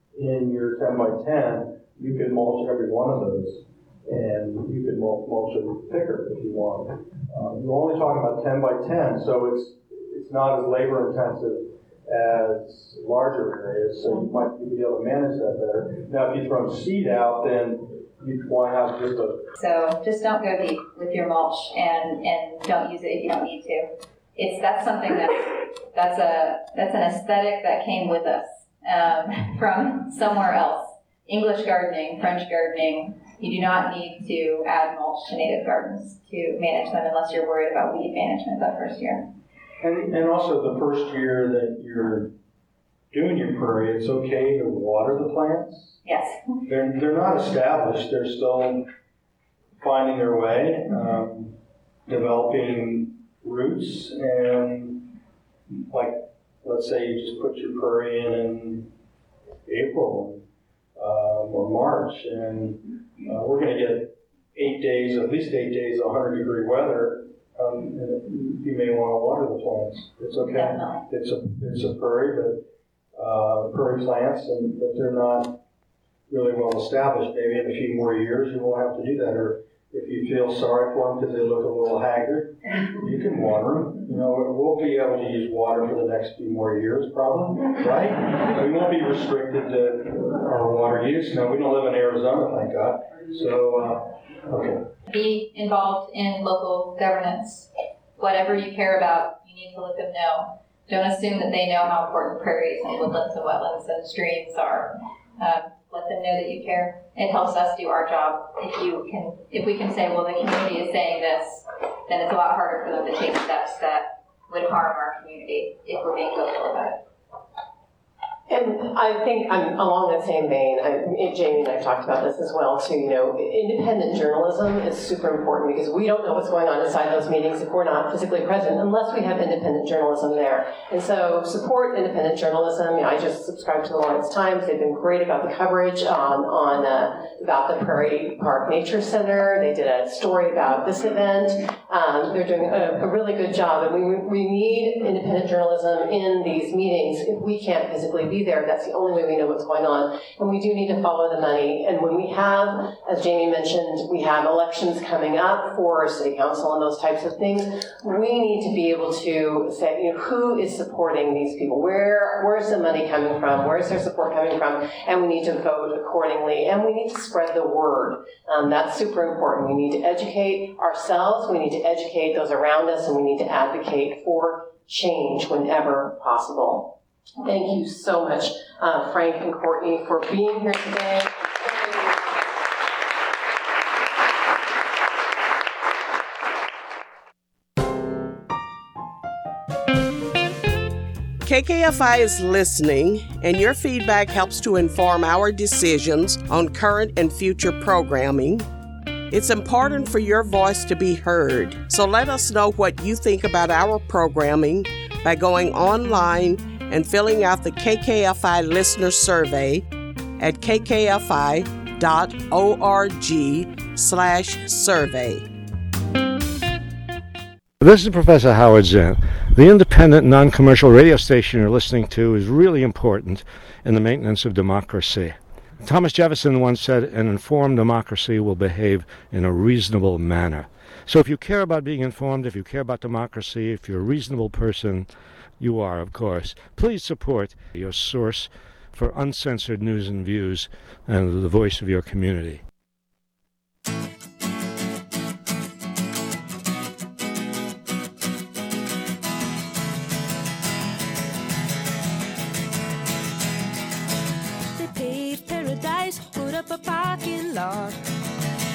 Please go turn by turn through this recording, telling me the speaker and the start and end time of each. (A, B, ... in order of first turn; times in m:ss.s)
0:00.2-0:19.5 A
0:19.6-0:39.3 B
0:39.8-0:42.3 A
0:43.1-0:46.0 A
0:46.0-0:46.4 B
0:46.6-0:48.9 A
0:49.8-0:55.1 A
0:55.7-0:58.9 A
0:59.7-1:15.6 A
1:10.5-1:11.0 B
1:16.3-1:34.9 A
1:35.1-1:57.0 B
1:58.5-3:01.9 C
3:11.4-3:18.7 D
3:19.3-3:29.8 D
3:30.4-3:35.5 D
3:37.8-4:02.6 E
4:14.8-4:18.0 F